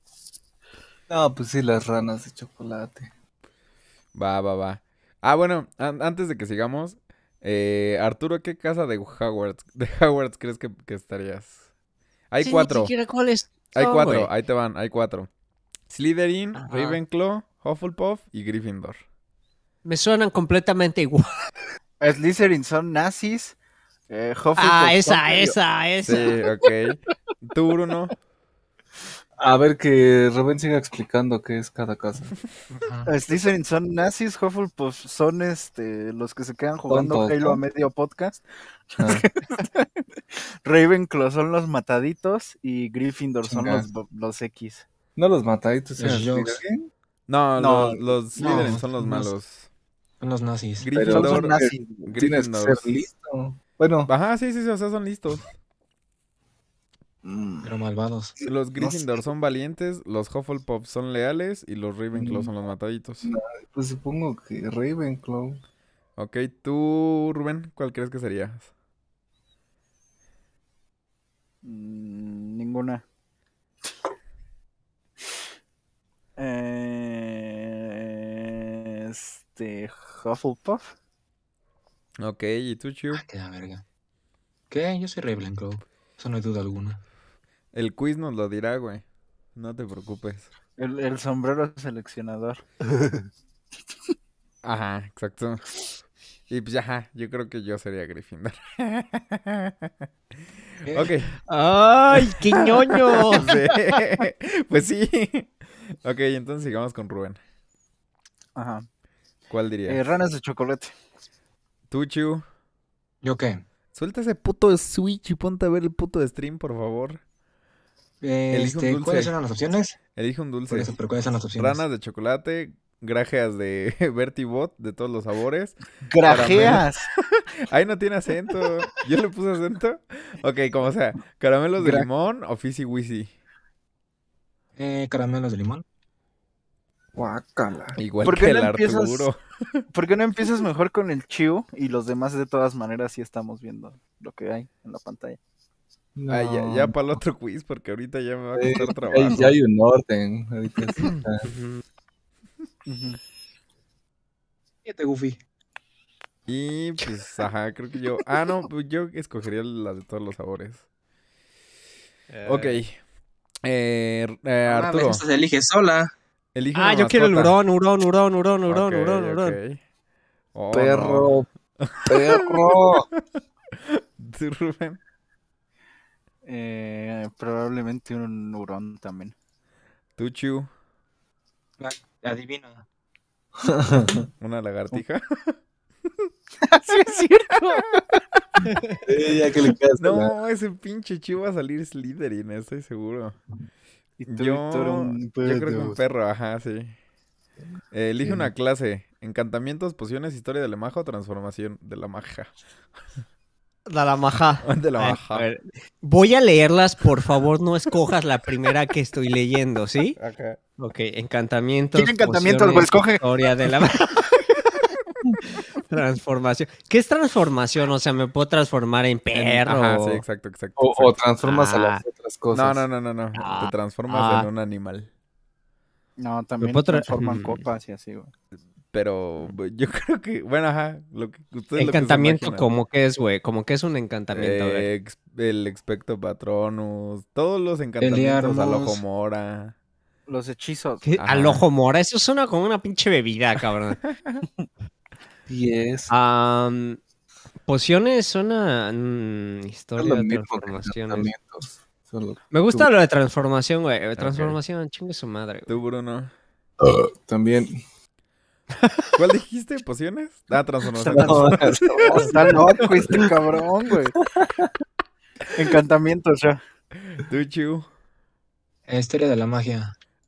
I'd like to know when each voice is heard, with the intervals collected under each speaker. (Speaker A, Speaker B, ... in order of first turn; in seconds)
Speaker A: 1.1-3.1, 29.4-32.3, 36.9-37.6, 39.0-39.2, 43.4-43.9, 45.1-46.9, 50.9-54.1, 57.2-57.8, 58.4-59.1, 62.1-62.5, 63.2-65.6, 137.2-138.0, 146.2-147.2, 148.6-151.5, 170.7-171.4, 172.1-173.1, 183.6-184.2, 189.1-190.3, 198.2-198.5, 220.8-222.8, 245.5-246.1, 250.0-252.9, 256.8-257.8, 261.1-263.3, 264.4-264.7
Speaker B: 4.1-11.6, 12.3-12.9, 13.7-15.3, 15.9-19.0, 26.0-28.1, 47.3-49.7, 50.8-52.9, 54.1-55.5, 58.4-63.3, 66.2-68.7, 82.2-83.2, 87.7-90.5, 94.6-95.6, 96.5-100.1, 100.8-101.4, 102.1-107.4, 109.5-110.0, 111.9-112.4, 113.9-117.2, 118.5-119.3, 120.1-120.9, 121.6-133.3, 138.0-139.8, 146.3-149.5, 156.5-160.8, 162.4-163.0, 163.6-165.2, 166.5-167.6, 168.7-169.8, 170.5-173.2, 173.8-175.0, 180.2-180.7, 184.4-185.5, 190.0-193.4, 194.3-196.9, 197.9-202.5, 204.6-205.5, 210.2-210.6, 219.3-221.2, 222.5-225.1, 228.9-232.7, 234.3-239.7, 241.2-241.7, 244.0-244.4, 254.2-254.6, 255.7-256.3, 259.1-262.2, 266.9-267.9
Speaker C: 12.4-14.3, 16.6-17.0, 19.8-21.5, 24.6-26.4, 101.5-103.6, 151.4-151.8, 162.3-162.8, 166.7-169.6, 188.7-189.0, 203.9-210.2, 210.8-214.5, 215.9-220.2, 221.4-222.0, 223.3-224.5, 226.6-227.6, 231.8-234.9, 241.0-244.0, 246.1-247.0, 247.7-251.3, 252.5-255.8
Speaker D: 22.0-23.6, 24.1-25.6, 33.0-39.9, 40.6-44.8, 47.6-48.0, 51.1-52.1, 71.6-73.0, 76.4-80.9, 90.8-92.6, 108.5-108.8, 109.9-110.9, 126.1-127.1, 131.8-132.1, 138.2-139.3, 139.9-145.4, 152.8-153.2, 176.5-179.3, 186.6-188.0, 194.2-196.0, 211.9-213.3, 226.2-228.3, 240.3-241.1, 261.0-261.6, 262.1-264.1, 265.5-266.6
Speaker E: 32.7-33.1, 46.0-46.6, 48.4-49.2, 50.2-50.9, 57.6-58.4, 83.1-83.8, 84.7-87.0, 100.9-101.1, 113.2-113.6, 118.2-120.0, 120.7-121.8, 134.8-135.8, 154.8-155.4, 164.7-166.1, 181.8-182.8, 238.0-239.0, 268.9-269.9